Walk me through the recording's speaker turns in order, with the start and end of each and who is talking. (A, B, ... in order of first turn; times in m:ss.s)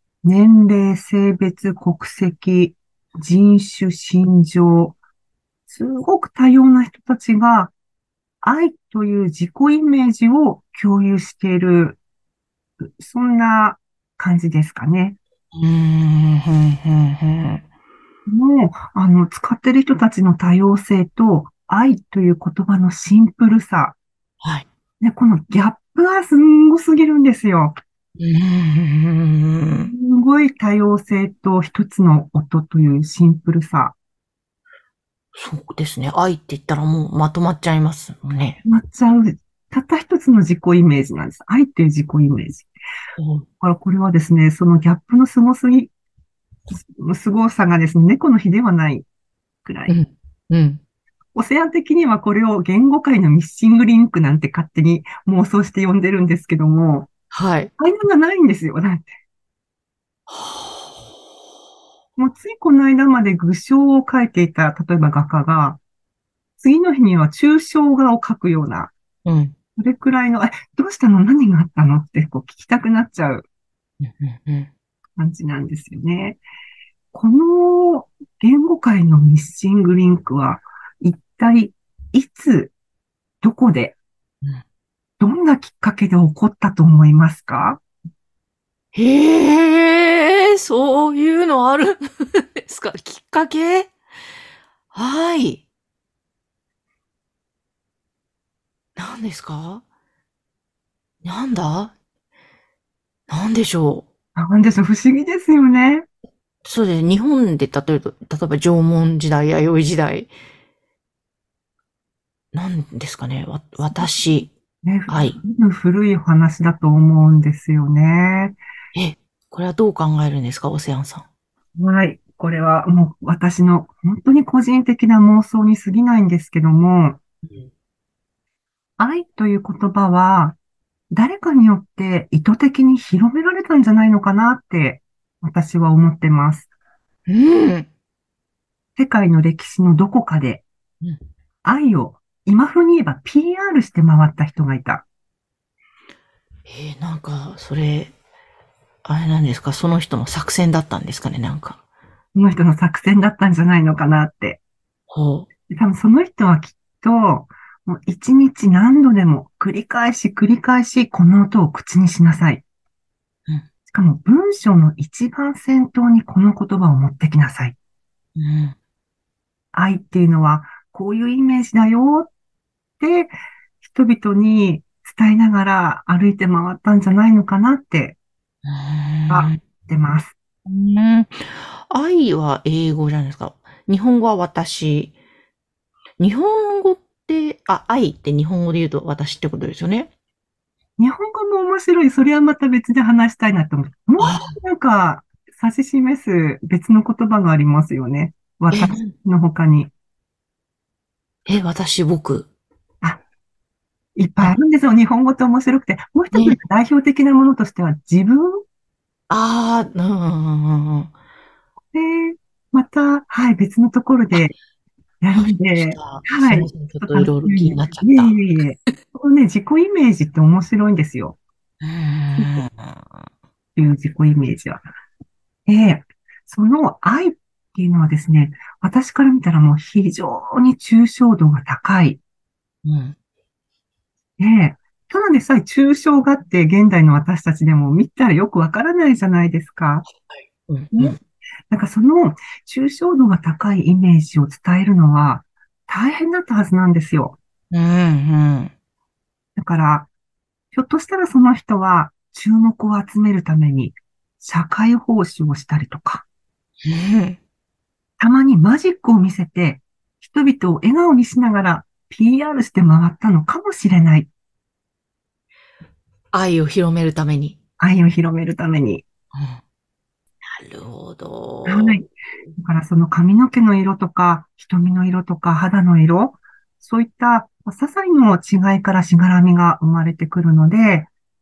0:00.2-0:05.0 A
0:05.7-0:07.7 A
0:08.4-0:12.0 A
0:12.8-0:15.2 A
0:15.6-0:17.6 B
0:18.3-0:24.0 A
0:25.0-0:27.7 A
0:28.2-0:29.9 B
0:29.9-0:33.9 A
0:35.3-0:38.6 B
0:38.6-0:42.7 A
0:43.2-0:43.4 B
0:43.6-0:45.9 A
0:46.7-0:49.1 A
0:49.6-0:50.0 A
0:49.9-0:50.8 B
0:51.4-0:57.1 A
0:57.3-0:57.7 B
0:57.8-0:59.1 A
1:00.3-1:01.0 B
1:02.2-1:05.8 A
1:06.6-1:08.9 A
1:09.2-1:09.6 B
1:09.8-1:13.4 A
1:14.0-1:14.7 B
1:15.2-1:16.4 A
1:17.1-1:22.7 A
1:23.4-1:24.0 A
1:25.2-1:27.8 A
1:28.9-1:32.0 B
1:32.6-1:33.9 B
1:34.9-1:35.6 B
1:39.0-1:39.8 B
1:41.2-1:41.9 B
1:43.3-1:44.1 B
1:44.4-1:46.0 A
1:46.6-1:50.3 B
1:52.5-1:54.5 B
1:54.8-1:58.6 A
1:55.1-1:55.4 B
1:59.0-2:01.3 B
2:01.8-2:07.2 A
2:09.0-2:10.6 A
2:11.1-2:16.7 A
2:17.3-2:17.9 B
2:19.0-2:20.6 A
2:21.6-2:25.0 A
2:26.7-2:28.1 B
2:29.0-2:31.8 B
2:32.4-2:34.6 A
2:35.1-2:35.5 B
2:35.7-2:42.6 A
2:43.9-2:47.8 A
2:48.4-2:48.8 B
2:49.7-2:52.3 A
2:53.0-2:58.2 A
2:58.7-2:59.6 B
2:59.3-3:00.3 A
3:00.7-3:05.2 B
3:06.2-3:10.1 B
3:11.0-3:19.9 A
3:14.2-3:14.6 B
3:18.7-3:19.1 B
3:21.5-3:22.5 B
3:24.2-3:28.6 A
3:26.3-3:26.6 B
3:29.3-3:31.1 B
3:31.9-3:34.5 A
3:35.2-3:41.4 A
3:35.4-3:38.3 B
3:41.8-3:43.0 B
3:42.4-3:42.6 A
3:43.8-3:44.8 A
3:45.7-3:52.2 A
3:52.8-3:53.2 B
3:54.4-4:00.1 A
4:00.2-4:01.2 B
4:01.7-4:07.4 A
4:07.7-4:08.7 B
4:09.6-4:10.1 A
4:10.7-4:16.2 A
4:16.9-4:17.4 B
4:18.2-4:24.3 A
4:26.3-4:27.6 B
4:27.8-4:29.1 A
4:29.4-4:29.6 B
4:30.6-4:32.0 B
4:31.6-4:41.1 A